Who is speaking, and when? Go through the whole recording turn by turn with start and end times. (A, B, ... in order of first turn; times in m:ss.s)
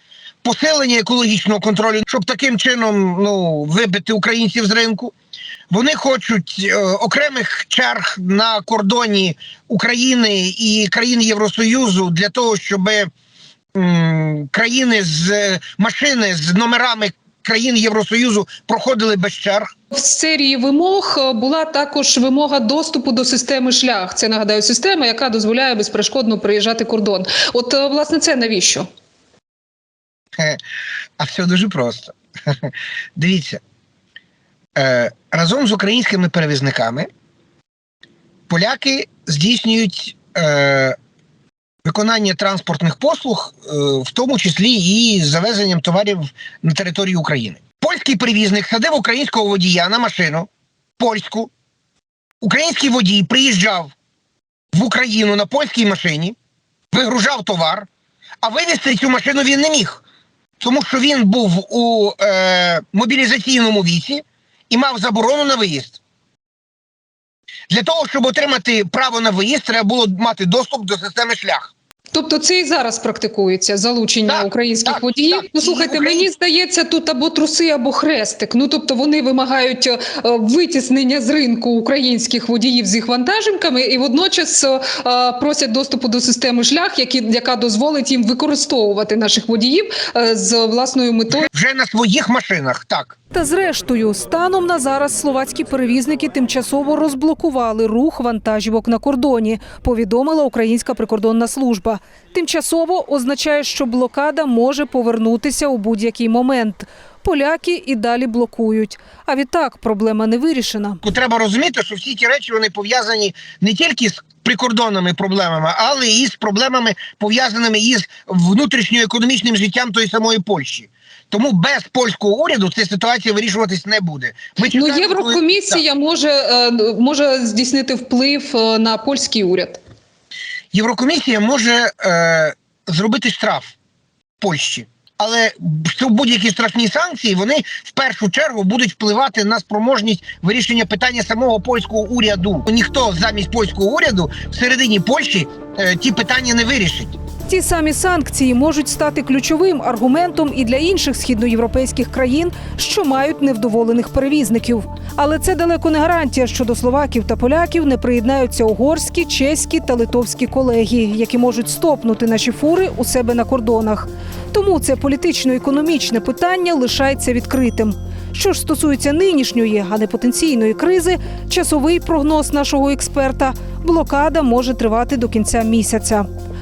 0:00.4-0:05.1 A
0:05.7-0:13.1 A
0:13.8-0:19.7 A
0:19.9-0:28.9 B
0:31.2-0:33.6 A
0:34.8-0:37.1 A
0:38.5-0:41.0 A
0:41.8-0:51.5 A
0:52.4-0:53.9 A
0:54.7-0:56.4 A
0:56.9-0:57.9 A
0:58.4-1:00.0 A
1:00.6-1:06.0 A
1:07.7-1:11.7 A
1:12.1-1:31.5 B
1:14.3-1:16.3 A
1:31.5-1:33.2 A
1:33.3-1:51.0 C
1:51.0-2:05.8 A
2:04.7-2:09.8 B
2:10.7-2:13.8 A
2:14.4-2:27.2 A
2:27.5-2:56.3 C